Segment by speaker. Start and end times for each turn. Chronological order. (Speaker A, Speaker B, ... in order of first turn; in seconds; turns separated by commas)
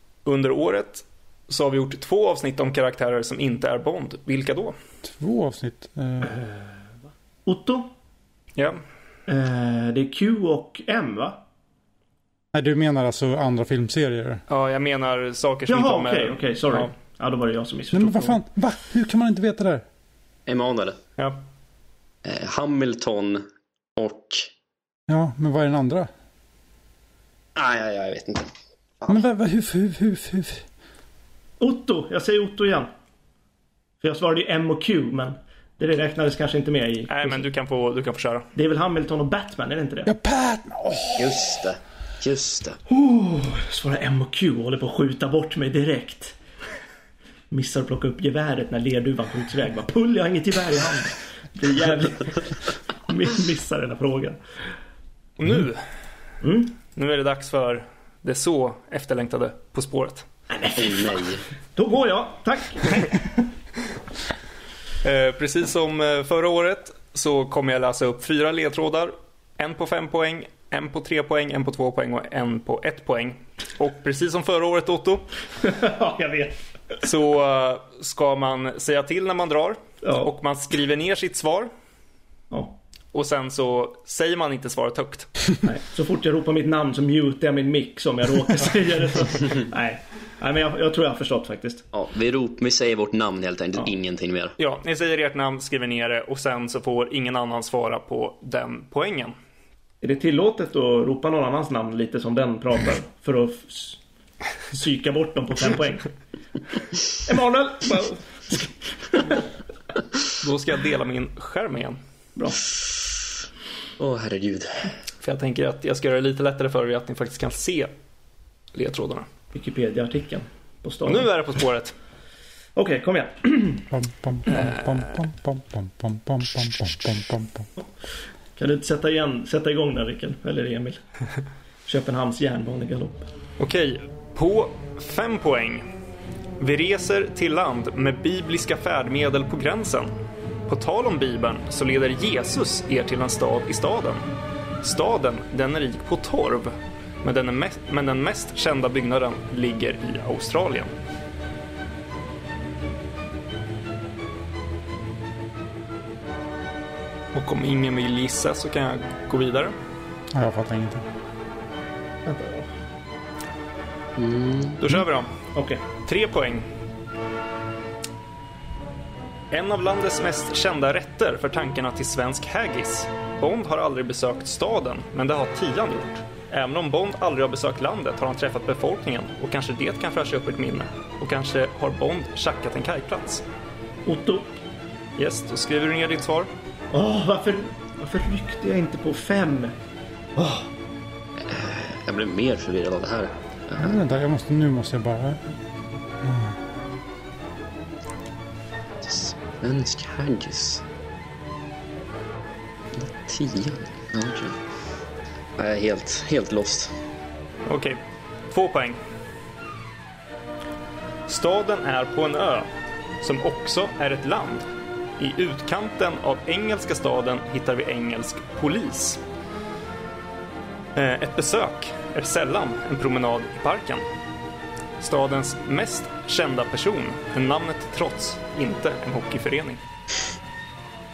Speaker A: 0.2-4.8, Speaker B: 5.0-6.4, Speaker C: 6.2-6.7, Speaker C: 7.5-7.9, Speaker C: 9.3-11.4, Speaker B: 12.5-14.4, Speaker A: 14.5-16.9, Speaker C: 15.7-18.4, Speaker B: 17.9-19.8, Speaker D: 20.5-21.0, Speaker D: 22.2-23.4, Speaker D: 23.9-24.5, Speaker B: 25.1-26.1, Speaker D: 27.6-28.5, Speaker B: 29.1-30.6, Speaker C: 31.6-32.9, Speaker C: 34.0-37.4, Speaker A: 37.1-38.5, Speaker C: 38.5-40.1, Speaker B: 40.0-41.6, Speaker D: 41.1-42.8, Speaker C: 42.9-46.4, Speaker C: 47.5-54.4, Speaker A: 55.4-55.8, Speaker C: 56.4-56.8, Speaker A: 56.9-60.3, Speaker C: 60.5-61.2, Speaker D: 60.8-61.4, Speaker C: 61.7-63.5, Speaker A: 65.0-75.2, Speaker C: 75.6-76.6, Speaker A: 77.0-81.7, Speaker C: 80.0-80.3, Speaker C: 82.5-82.8, Speaker A: 83.1-85.3, Speaker C: 85.6-91.9, Speaker D: 91.9-94.5, Speaker A: 94.6-99.3, Speaker C: 100.0-104.0, Speaker C: 104.7-106.1, Speaker C: 107.1-109.4, Speaker A: 110.4-112.0, Speaker C: 112.3-112.7, Speaker D: 114.0-114.9, Speaker A: 115.2-117.9, Speaker A: 118.7-119.3, Speaker C: 119.5-121.3, Speaker A: 121.0-121.9, Speaker C: 122.8-123.9, Speaker B: 123.9-127.7, Speaker A: 124.5-125.1, Speaker C: 128.6-131.0, Speaker C: 131.8-133.3, Speaker A: 133.6-135.8, Speaker A: 136.6-140.1, Speaker A: 140.7-144.2, Speaker A: 144.8-146.7, Speaker A: 147.2-150.9, Speaker A: 157.3-159.7, Speaker B: 160.3-161.0, Speaker C: 162.2-162.7, Speaker D: 164.2-164.8, Speaker A: 164.8-165.3, Speaker C: 165.5-165.8, Speaker A: 166.0-166.7, Speaker A: 169.5-183.4, Speaker C: 184.1-184.5, Speaker A: 185.2-186.5, Speaker C: 186.9-189.7, Speaker C: 190.4-190.7, Speaker D: 191.4-194.0, Speaker B: 193.8-195.6, Speaker B: 196.2-196.6, Speaker D: 199.0-200.8, Speaker D: 202.9-204.6, Speaker D: 205.6-206.9, Speaker A: 207.7-209.0, Speaker A: 211.3-212.7, Speaker A: 213.2-214.7, Speaker A: 215.2-219.2, Speaker A: 220.9-224.0, Speaker A: 225.0-229.8